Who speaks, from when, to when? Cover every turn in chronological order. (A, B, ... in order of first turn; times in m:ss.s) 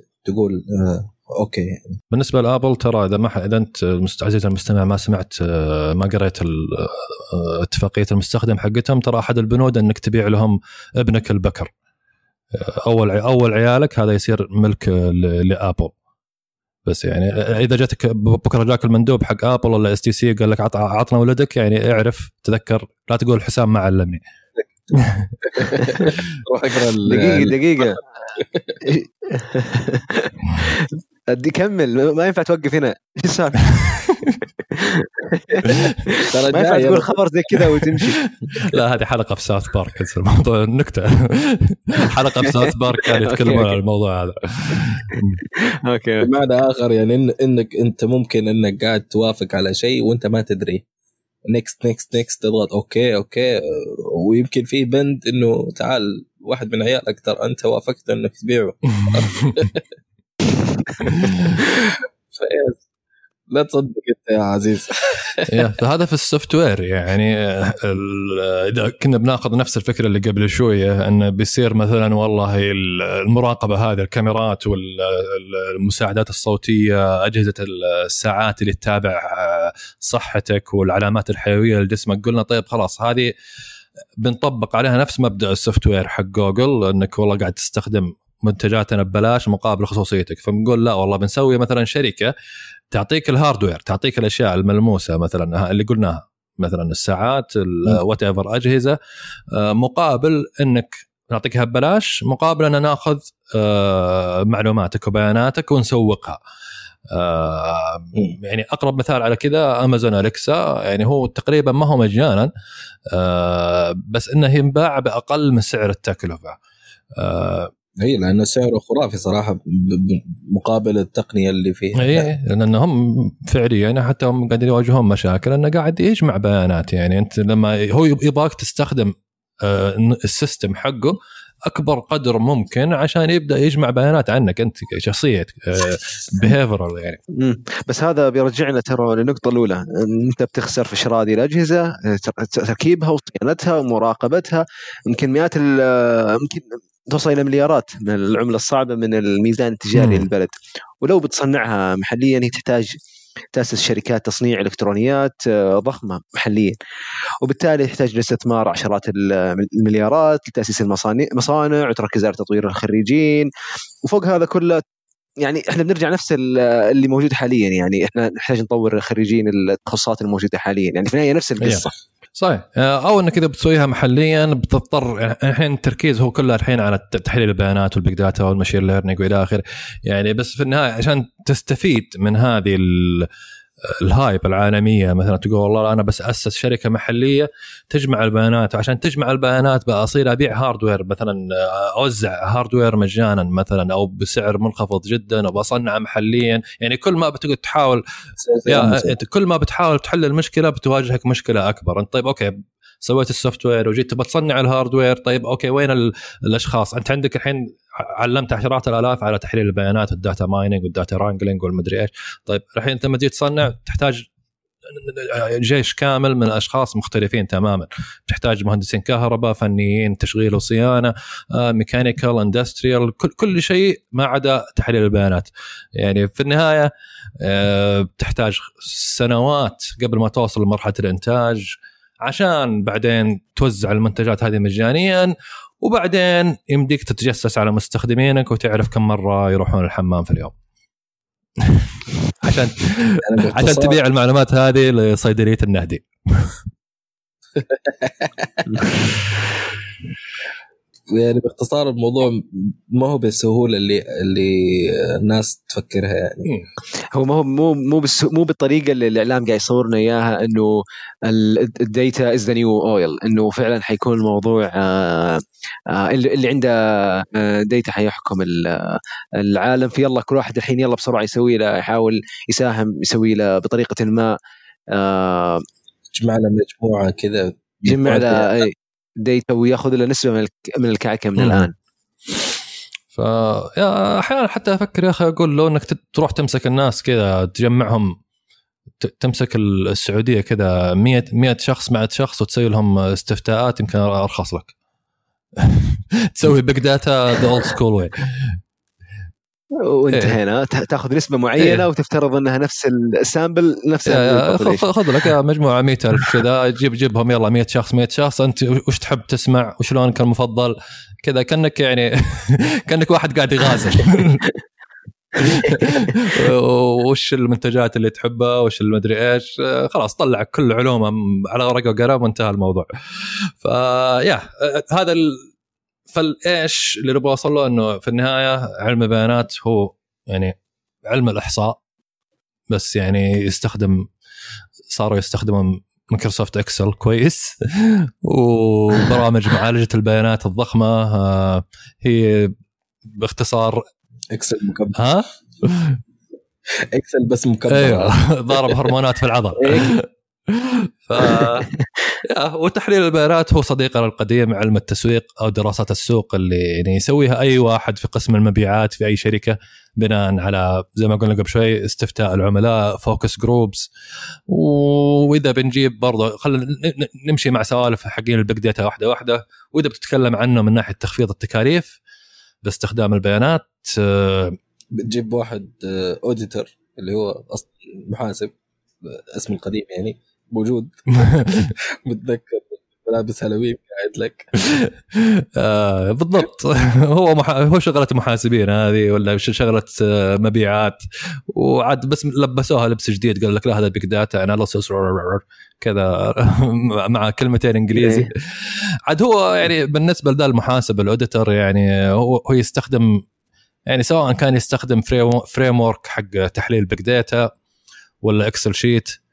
0:00.2-0:02.0 A
0:02.1-0:11.7 B
0:12.5-0:15.9 B
0:16.8-0:24.2 B
0:25.0-0:25.3 B
0:25.5-0:28.8 A
0:25.7-0:26.0 C
0:27.0-0:28.0 C
0:28.8-0:33.9 C
0:34.7-0:38.2 C
0:36.3-0:37.2 A
0:38.5-0:45.4 B
0:42.2-0:43.7 C
0:45.9-0:46.3 C
0:46.2-0:50.8 A
0:51.5-0:59.8 A
0:59.0-0:59.3 B
1:01.0-1:01.5 B
1:01.9-1:02.8 A
1:03.5-1:05.5 A
1:05.5-1:23.3 B
1:24.2-1:32.3 B
1:32.9-1:39.0 B
1:39.5-1:46.4 B
1:47.1-1:52.5 B
1:53.1-1:56.6 B
1:57.2-1:57.7 B
1:58.0-2:02.3 A
2:02.0-2:17.2 B
2:17.4-2:33.0 C
2:29.9-2:30.2 B
2:33.5-2:36.8 C
2:37.4-2:43.5 C
2:44.1-2:44.8 C
2:45.4-2:51.9 C
2:52.4-3:03.3 B
3:03.9-3:18.0 B
3:18.4-3:19.2 A
3:18.7-3:34.3 B
3:34.9-3:51.7 B
3:52.2-4:00.5 B
4:01.6-4:01.9 B
4:02.4-4:06.5 B
4:03.2-4:04.0 A
4:07.6-4:08.8 A
4:11.1-4:16.5 A
4:17.1-4:20.7 C
4:21.3-4:34.4 C
4:34.9-4:35.6 C
4:36.1-4:38.6 A
4:37.8-4:41.7 C
4:41.4-4:41.7 B
4:43.1-4:48.2 B
4:49.0-4:54.7 B
4:55.6-4:58.6 B
4:59.8-5:04.9 C
5:04.1-5:14.4 B
5:15.4-5:22.9 B
5:23.6-5:25.5 B
5:26.1-5:30.5 B
5:31.0-5:31.8 B
5:32.7-5:34.1 B
5:34.9-5:42.5 B
5:43.0-5:43.8 B
5:44.3-5:45.1 A
5:45.0-5:46.0 B
5:46.8-5:48.9 A
5:47.7-5:51.7 B
5:49.6-5:49.9 A
5:52.2-6:03.9 B
6:04.5-6:12.0 B
6:12.6-6:14.6 B
6:14.9-6:21.1 A
6:21.2-6:21.7 B
6:22.0-6:24.4 A
6:24.7-6:43.1 B
6:38.0-6:38.3 C
6:43.9-6:47.4 B
6:48.2-6:49.2 B